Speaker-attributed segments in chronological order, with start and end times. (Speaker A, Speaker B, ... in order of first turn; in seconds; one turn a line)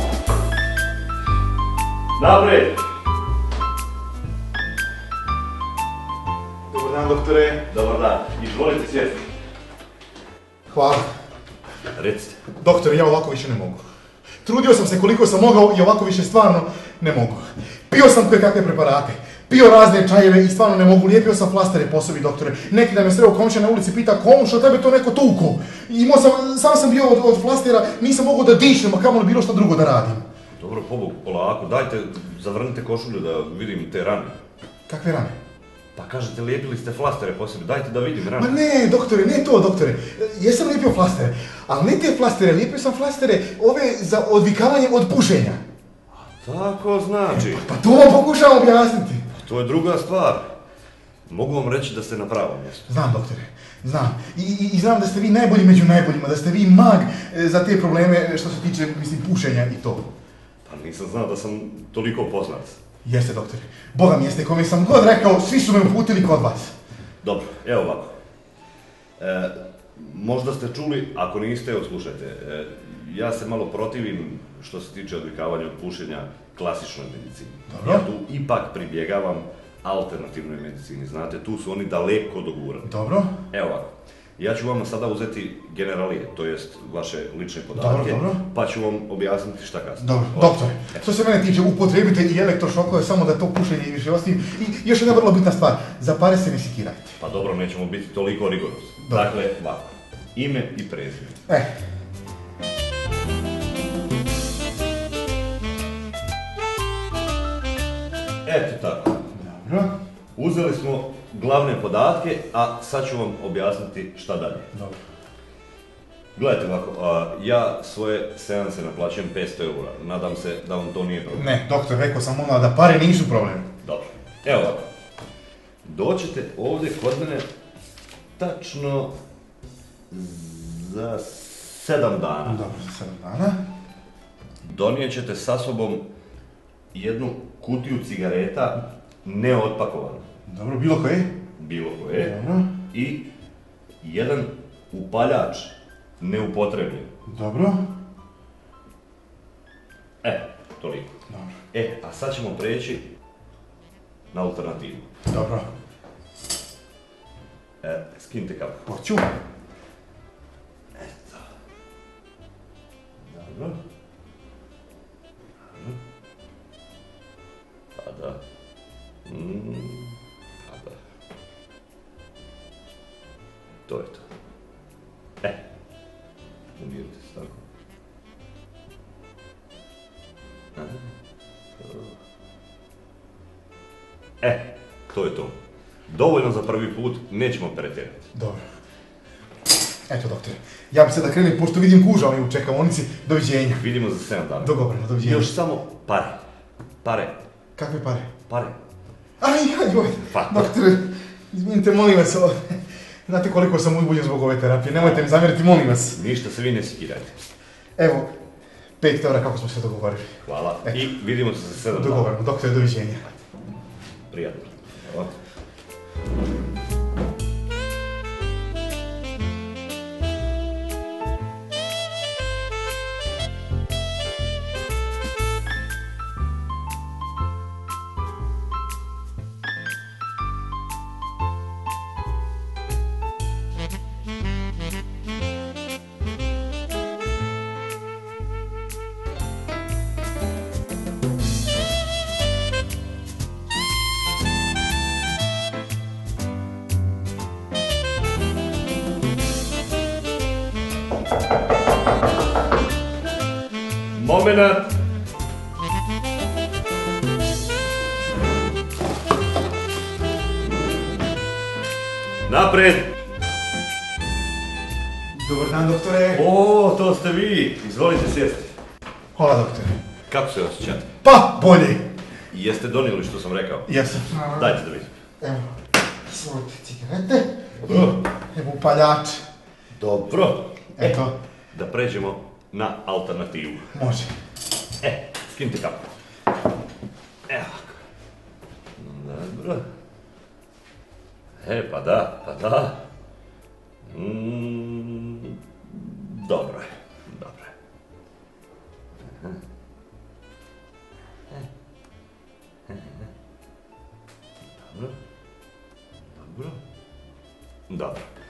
Speaker A: 2.2-2.9
Speaker B: 6.7-7.7
Speaker A: 7.7-9.3
Speaker B: 10.7-11.1
Speaker A: 11.9-12.4
Speaker B: 12.6-13.8
Speaker B: 14.4-30.2
Speaker A: 30.6-34.4
Speaker B: 34.9-35.4
Speaker A: 36.0-38.6
Speaker B: 38.4-45.6
Speaker A: 46.4-47.7
Speaker B: 47.3-49.2
Speaker A: 49.4-50.5
Speaker A: 51.3-52.9
Speaker B: 52.9-60.1
Speaker A: 60.7-62.8
Speaker B: 63.0-66.7
Speaker A: 67.2-68.1
Speaker A: 69.2-82.9
Speaker B: 77.7-78.1
Speaker B: 82.8-83.3
Speaker A: 83.5-91.0
Speaker B: 87.8-88.4
Speaker B: 90.0-97.2
Speaker A: 97.2-101.4
Speaker B: 99.0-99.3
Speaker A: 108.5-109.2
Speaker B: 109.3-109.9
Speaker A: 110.4-114.7
Speaker B: 114.7-115.0
Speaker A: 116.3-121.5
Speaker B: 121.3-123.7
Speaker A: 123.8-124.8
Speaker A: 125.8-127.5
Speaker A: 128.4-129.2
Speaker A: 130.1-132.7
Speaker B: 132.5-133.6
Speaker A: 134.6-136.1
Speaker A: 136.9-140.3
Speaker B: 140.5-141.3
Speaker A: 141.6-142.4
Speaker B: 142.1-142.7
Speaker A: 142.9-143.3
Speaker A: 144.0-147.1
Speaker B: 147.3-147.8
Speaker A: 150.2-151.1
Speaker A: 151.7-153.1
Speaker A: 154.3-155.1
Speaker B: 155.3-155.7
Speaker A: 157.8-158.9
Speaker B: 158.9-159.3
Speaker A: 161.0-161.4
Speaker A: 163.3-163.8
Speaker A: 168.0-168.4
Speaker A: 169.3-171.0
Speaker A: 173.9-174.2
Speaker A: 176.8-177.6
Speaker A: 180.8-181.1
Speaker A: 181.8-182.1
Speaker A: 184.4-185.6
Speaker A: 186.1-188.3
Speaker B: 188.3-188.6
Speaker B: 190.1-193.8
Speaker A: 193.7-196.4
Speaker B: 194.6-195.5
Speaker A: 197.0-197.4
Speaker B: 197.8-198.3
Speaker A: 198.5-198.8
Speaker B: 199.4-206.2
Speaker A: 200.2-200.7
Speaker A: 206.1-207.4
Speaker B: 208.0-208.3
Speaker B: 209.0-211.0
Speaker A: 210.4-212.3
Speaker B: 211.9-213.3
Speaker A: 214.3-215.3
Speaker A: 254.2-254.9
Speaker A: 262.5-263.1
Speaker B: 265.4-266.5
Speaker A: 266.3-268.7
Speaker B: 269.4-269.9
Speaker A: 270.3-271.1
Speaker B: 271.2-272.0
Speaker A: 272.5-273.9
Speaker B: 273.9-274.8
Speaker A: 274.5-275.1
Speaker B: 275.4-275.7
Speaker B: 276.2-279.4
Speaker A: 279.9-283.9
Speaker B: 281.0-281.4
Speaker B: 283.9-284.3
Speaker A: 285.0-286.1
Speaker A: 287.5-288.0
Speaker A: 289.0-289.9
Speaker A: 291.6-293.0
Speaker A: 294.1-297.7
Speaker A: 302.9-303.2
Speaker A: 304.8-305.1
Speaker A: 306.3-306.8
Speaker A: 307.9-308.2